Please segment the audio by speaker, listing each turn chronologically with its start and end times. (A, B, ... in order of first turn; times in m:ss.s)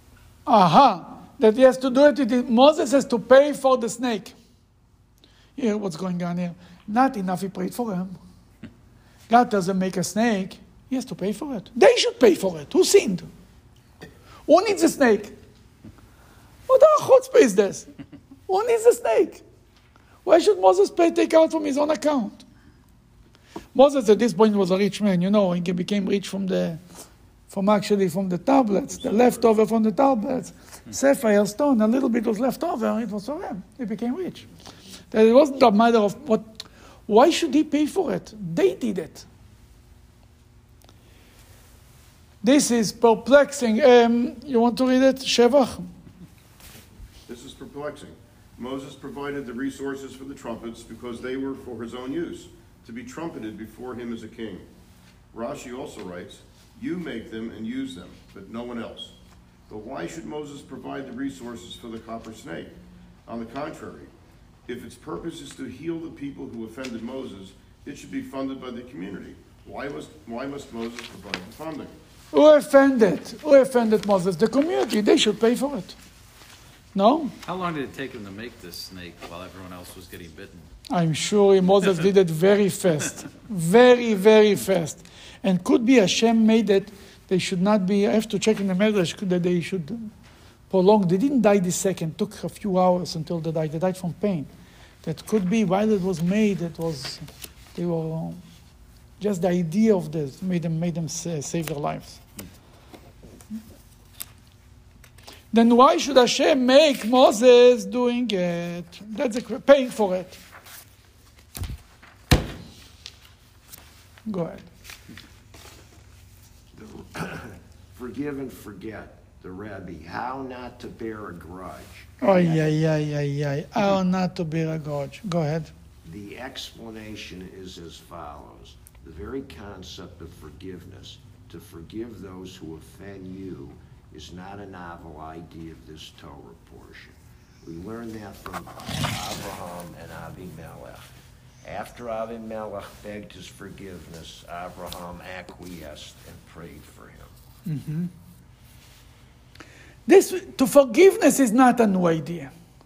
0:00.4-0:04.3 A
0:05.6-0:08.2 A
0:09.3-0:13.3 A
0:14.5-0:15.4 A
0:16.7-0:17.9 A
0:18.5-0:19.4 A
0:20.2-0:22.4 A
0:23.7-0:26.8 A
0:27.5-0:34.5 A
0:35.1-0:39.3 A
0:42.4-0:45.8 A
0:47.3-0:54.7 B
0:55.3-0:59.1 B
0:59.7-1:02.7 B
1:03.3-1:04.1 B
1:04.7-1:12.0 B
1:12.3-1:16.0 A
1:16.9-1:17.4 A
1:17.4-1:20.7 C
1:20.9-1:30.1 A
1:30.7-1:34.5 A
1:35.0-1:38.4 A
1:39.2-1:42.2 A
1:45.5-1:50.4 A
1:54.3-1:54.6 A
1:56.8-2:02.7 D
2:02.2-2:05.7 A
2:06.0-2:21.0 D
2:21.6-2:27.3 D
2:27.6-2:28.1 A
2:30.1-2:32.5 A